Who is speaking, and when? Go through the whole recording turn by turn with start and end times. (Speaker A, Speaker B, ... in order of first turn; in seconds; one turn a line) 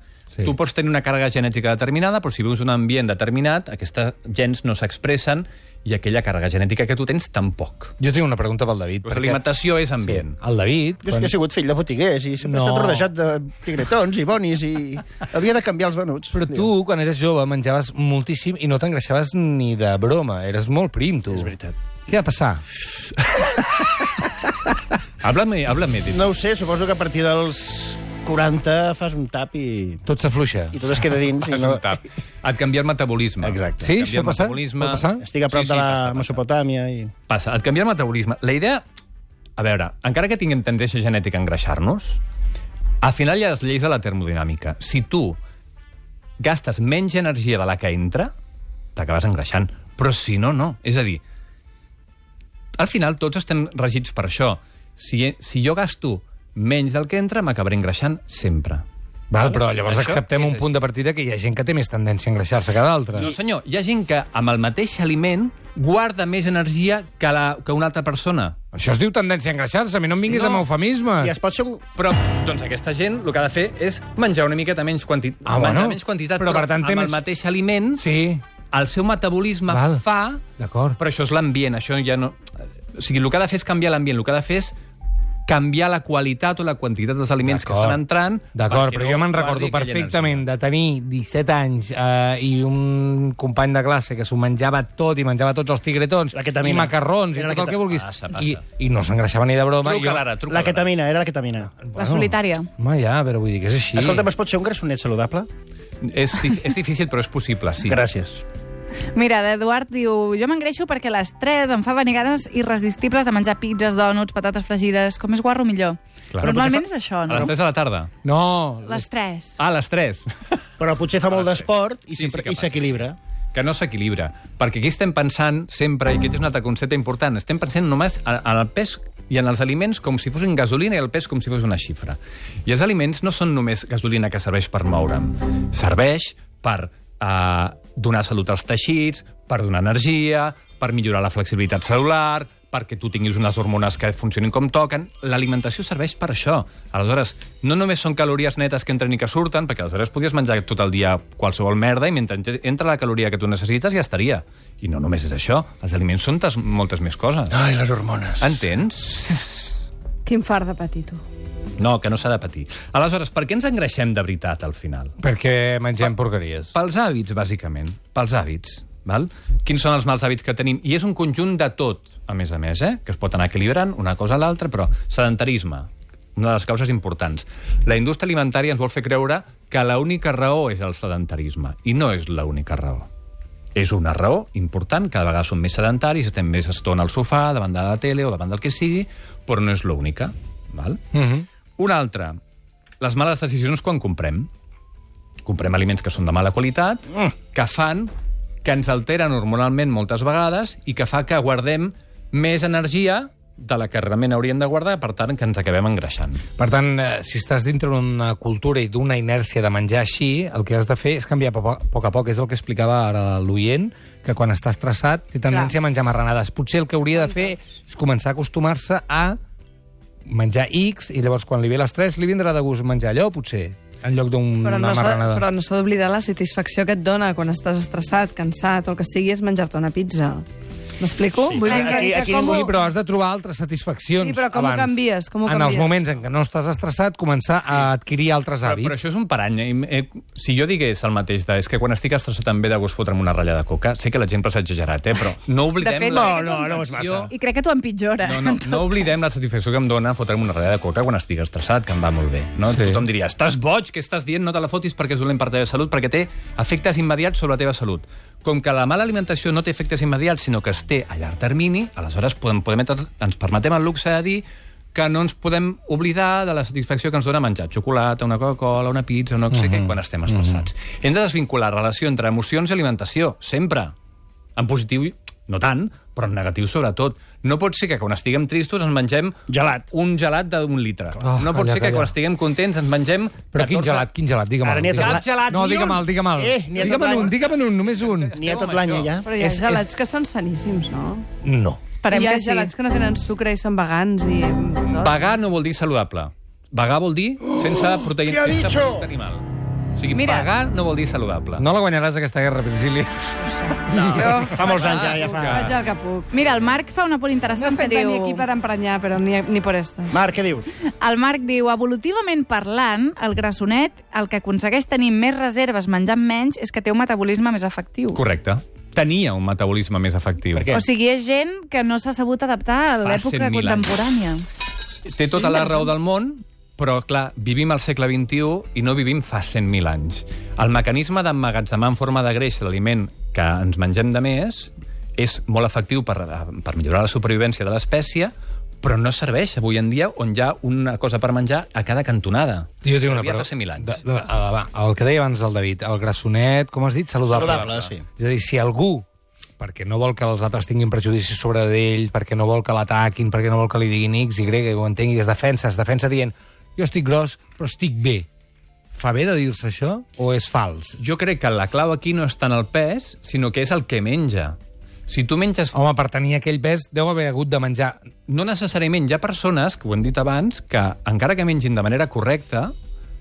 Speaker A: 0.4-7.9
Speaker B: 8.0-9.4
Speaker A: 9.0-10.4
Speaker B: 10.0-11.3
Speaker C: 11.0-16.7
Speaker B: 12.4-13.1
Speaker B: 16.3-21.5
Speaker C: 21.3-21.8
Speaker B: 22.1-22.6
Speaker A: 25.2-26.3
Speaker C: 26.1-30.0
Speaker B: 30.1-31.0
Speaker C: 30.7-31.8
Speaker A: 31.4-36.4
Speaker C: 33.4-33.9
Speaker B: 33.8-35.2
Speaker C: 35.2-37.1
Speaker A: 37.3-38.8
Speaker A: 39.6-42.2
Speaker A: 43.0-45.4
Speaker A: 46.4-48.3
Speaker A: 49.0-51.2
Speaker A: 52.7-60.7
Speaker B: 59.3-63.3
Speaker A: 63.1-68.6
Speaker B: 68.7-71.3
Speaker A: 70.2-70.7
Speaker C: 71.2-71.8
Speaker A: 72.0-78.0
Speaker B: 75.4-77.2
Speaker B: 78.0-78.4
Speaker A: 78.7-80.4
Speaker B: 79.7-80.0
Speaker B: 80.5-81.0
Speaker A: 81.0-84.8
Speaker A: 85.5-90.5
Speaker B: 87.4-88.0
Speaker B: 88.5-100.2
Speaker C: 96.3-97.8
Speaker A: 97.8-98.6
Speaker A: 99.8-100.9
Speaker C: 100.5-101.8
Speaker B: 101.8-104.3
Speaker D: 101.9-102.7
Speaker C: 103.9-105.5
Speaker A: 106.0-108.0
Speaker C: 107.8-108.4
Speaker D: 109.1-117.5
Speaker A: 116.3-118.1
Speaker B: 118.2-119.0
Speaker D: 118.9-119.6
Speaker A: 119.6-120.6
Speaker C: 120.8-123.2
Speaker A: 121.3-157.6
Speaker C: 157.5-158.5
Speaker A: 158.4-159.8
Speaker E: 160.2-161.2
Speaker A: 161.8-165.1
Speaker B: 165.2-166.7
Speaker A: 166.7-183.1
Speaker A: 183.7-191.1
Speaker B: 191.1-191.4
Speaker A: 191.8-192.4
Speaker A: 193.0-194.5
Speaker A: 195.4-198.1
Speaker A: 198.6-206.4
Speaker B: 206.6-219.4
Speaker E: 217.1-217.5
Speaker B: 220.3-225.4
Speaker E: 224.6-230.4
Speaker E: 231.0-232.8
Speaker C: 231.5-232.7
Speaker D: 231.7-232.0
Speaker B: 231.7-239.0
Speaker E: 234.2-235.9
Speaker A: 238.6-247.3
Speaker D: 245.8-249.1
Speaker C: 246.1-247.3
Speaker A: 248.2-273.9
Speaker B: 252.7-253.0
Speaker B: 269.5-270.6
Speaker A: 274.6-284.1
Speaker C: 279.5-279.9
Speaker B: 281.2-282.1
Speaker B: 283.5-288.3
Speaker C: 284.6-285.7
Speaker A: 284.9-286.1
Speaker C: 286.3-287.4
Speaker A: 286.7-289.2
Speaker C: 288.3-289.8
Speaker E: 289.2-291.3
Speaker B: 291.4-291.8
Speaker D: 292.0-292.7
Speaker E: 292.1-295.3
Speaker A: 294.9-301.6
Speaker C: 298.0-299.1
Speaker D: 300.1-300.5
Speaker B: 301.6-303.3
Speaker E: 303.4-306.3
Speaker B: 303.9-304.3
Speaker C: 303.9-305.7
Speaker A: 304.6-305.8
Speaker D: 306.3-308.4
Speaker E: 307.5-310.2
Speaker C: 310.1-310.7
Speaker D: 310.9-318.2
Speaker A: 318.1-320.8
Speaker C: 320.5-320.8
Speaker D: 320.7-324.4
Speaker A: 323.0-324.0
Speaker A: 325.0-344.0
Speaker D: 325.4-325.9
Speaker B: 342.8-349.1
Speaker A: 347.3-347.9
Speaker C: 347.3-348.0
Speaker B: 349.6-358.3
Speaker B: 358.9-361.0
Speaker A: 361.0-365.7
Speaker B: 365.7-368.0
Speaker A: 368.3-372.7